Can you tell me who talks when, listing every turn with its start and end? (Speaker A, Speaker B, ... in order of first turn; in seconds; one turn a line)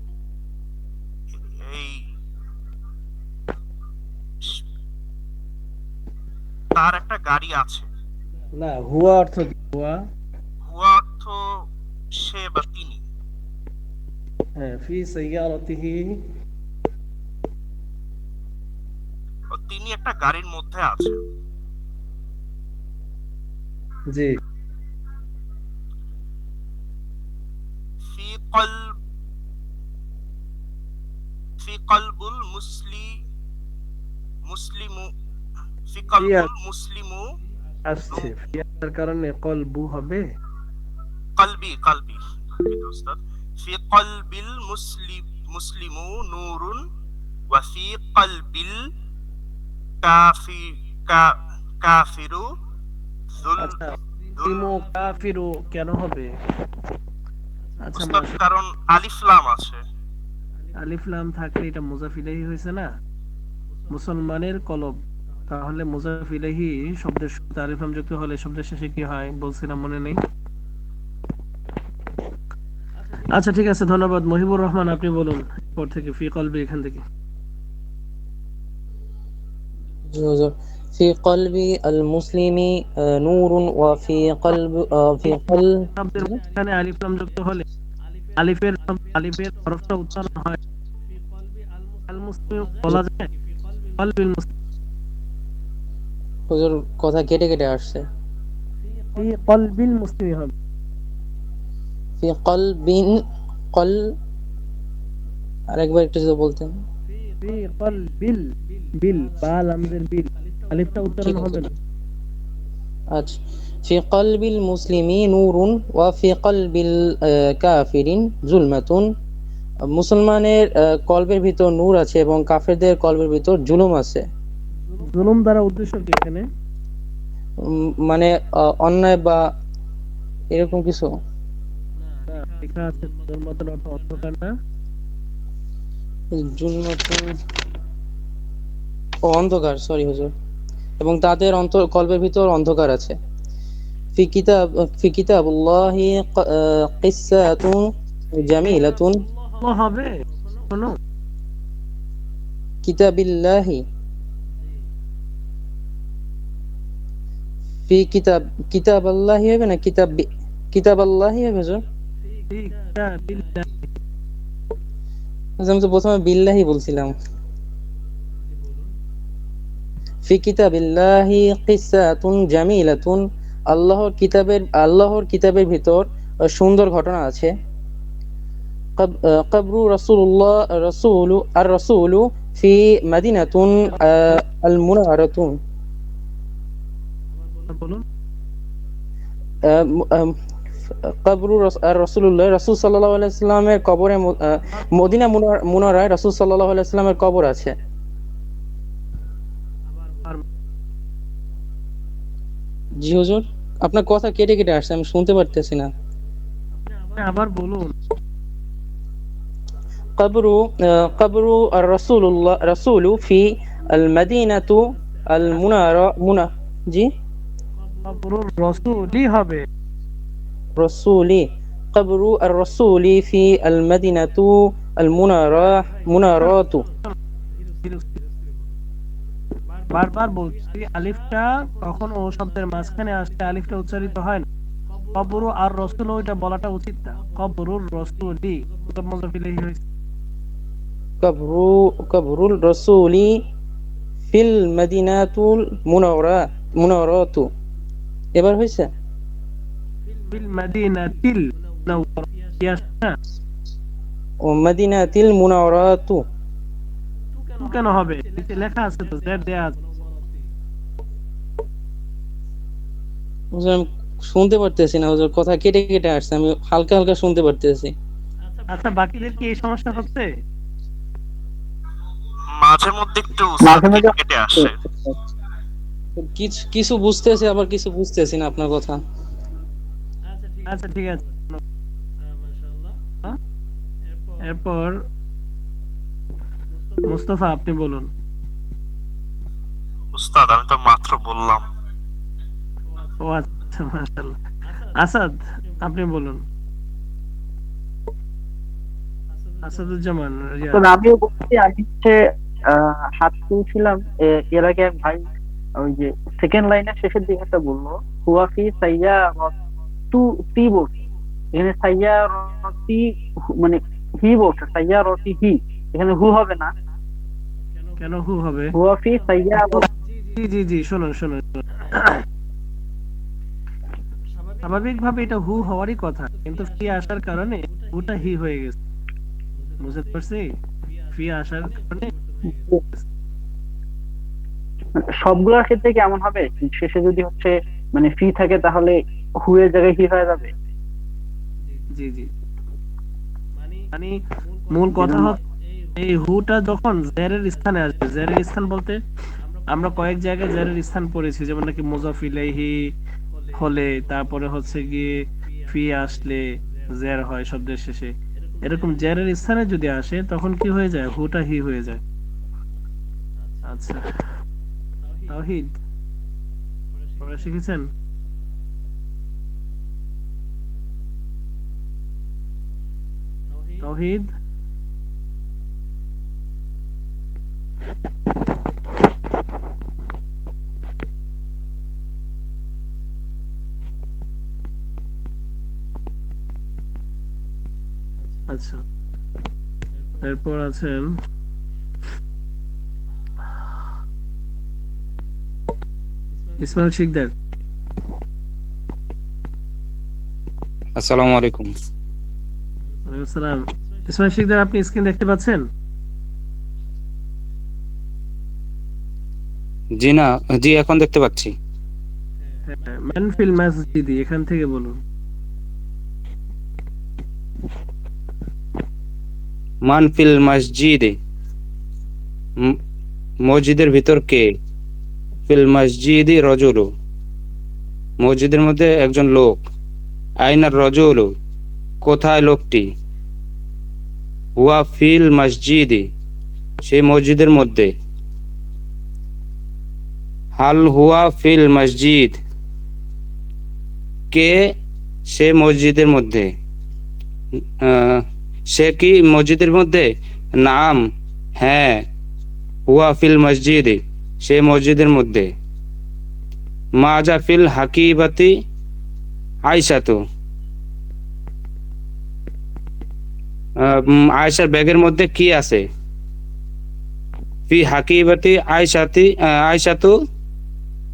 Speaker A: 1.3-2.0
Speaker A: 6.7-7.9
Speaker B: 8.6-9.9
Speaker A: 10.7-11.4
Speaker A: 12.2-13.0
Speaker B: 14.6-16.1
Speaker A: 19.5-21.2
Speaker A: 28.1-28.8
Speaker A: 31.6-33.1
Speaker A: 34.5-35.1
Speaker A: 35.9-37.2
Speaker B: 36.2-36.5
Speaker B: 37.9-40.2
Speaker A: 41.4-46.8
Speaker A: 47.5-48.8
Speaker A: 50.0-51.3
Speaker A: 51.8-52.4
Speaker A: 53.4-53.7
Speaker B: 53.6-53.9
Speaker A: 54.4-54.6
Speaker B: 54.4-56.3
Speaker B: 57.8-58.3
Speaker A: 57.9-59.8
Speaker B: 60.8-62.9
Speaker B: 63.9-65.0
Speaker B: 65.5-70.2
Speaker B: 73.3-77.0
Speaker C: 80.1-86.3
Speaker B: 85.4-87.6
Speaker B: 88.4-90.6
Speaker B: 92.1-93.3
Speaker B: 94.0-94.5
Speaker C: 96.5-98.0
Speaker B: 99.2-100.5
Speaker C: 102.2-103.1
Speaker C: 103.7-104.0
Speaker C: 105.7-106.7
Speaker B: 107.4-108.5
Speaker B: 109.0-111.7
Speaker C: 111.2-111.7
Speaker C: 113.1-119.1
Speaker C: 119.9-124.2
Speaker B: 125.0-126.4
Speaker C: 128.0-129.4
Speaker C: 130.5-131.1
Speaker B: 132.3-134.5
Speaker C: 136.3-137.3
Speaker C: 139.3-140.3
Speaker C: 141.0-143.2
Speaker C: 144.2-147.8
Speaker C: 148.4-149.2
Speaker B: 149.6-150.9
Speaker C: 152.8-153.8
Speaker C: 157.9-161.8
Speaker B: 162.5-163.7
Speaker C: 165.6-167.1
Speaker C: 170.2-177.5
Speaker C: 179.0-185.5
Speaker B: 187.7-188.0
Speaker C: 189.7-190.3
Speaker C: 191.1-197.7
Speaker C: 203.0-205.9
Speaker B: 206.9-207.9
Speaker C: 210.2-217.1
Speaker B: 218.0-219.6
Speaker C: 220.8-226.8
Speaker B: 227.8-228.2
Speaker B: 229.9-234.4
Speaker B: 235.1-239.8
Speaker C: 241.2-243.3
Speaker C: 244.3-247.5
Speaker C: 248.3-248.9
Speaker B: 250.3-253.1
Speaker C: 254.4-256.2
Speaker B: 257.4-259.9
Speaker C: 263.5-267.9
Speaker B: 268.7-270.3
Speaker A: 272.5-274.7
Speaker D: 273.6-275.1
Speaker C: 276.2-279.0
Speaker B: 280.6-281.6
Speaker B: 284.5-285.0
Speaker B: 287.0-288.1
Speaker A: 290.1-291.6
Speaker B: 293.2-294.3
Speaker B: 294.9-296.4
Speaker B: 299.6-300.8
Speaker D: 300.7-302.2
Speaker D: 303.1-305.2
Speaker D: 305.8-309.5
Speaker D: 310.1-310.9
Speaker D: 311.5-313.0
Speaker D: 313.6-316.7
Speaker B: 318.0-318.7
Speaker D: 318.7-319.8
Speaker B: 319.6-322.2
Speaker B: 324.6-328.8
Speaker B: 329.8-330.4
Speaker B: 331.1-332.1
Speaker D: 335.2-340.5
Speaker B: 341.9-342.3
Speaker B: 343.9-344.2
Speaker B: 344.7-345.3
Speaker D: 345.0-345.3
Speaker B: 345.9-349.0
Speaker B: 349.7-352.7
Speaker B: 353.6-355.1
Speaker B: 355.7-356.4
Speaker B: 357.0-358.1
Speaker B: 358.6-362.0
Speaker B: 363.7-364.0
Speaker B: 365.3-365.7
Speaker B: 367.2-367.9
Speaker B: 373.8-374.3
Speaker B: 388.5-388.8
Speaker B: 390.2-391.1
Speaker B: 396.6-397.3
Speaker E: 401.0-401.7
Speaker B: 403.1-405.6
Speaker E: 410.0-411.5
Speaker B: 412.7-415.0
Speaker E: 419.8-421.1
Speaker E: 423.4-424.4
Speaker E: 425.5-426.9
Speaker E: 428.2-429.6
Speaker E: 430.4-431.3
Speaker E: 432.0-432.9
Speaker E: 434.6-436.1
Speaker E: 436.8-437.9
Speaker E: 440.6-442.4
Speaker E: 444.3-444.7
Speaker E: 445.3-446.5
Speaker E: 447.8-450.1
Speaker E: 450.6-451.0
Speaker E: 451.6-452.0
Speaker E: 452.9-455.5
Speaker E: 457.0-458.5
Speaker E: 459.6-460.2
Speaker E: 463.8-465.8
Speaker E: 467.7-470.1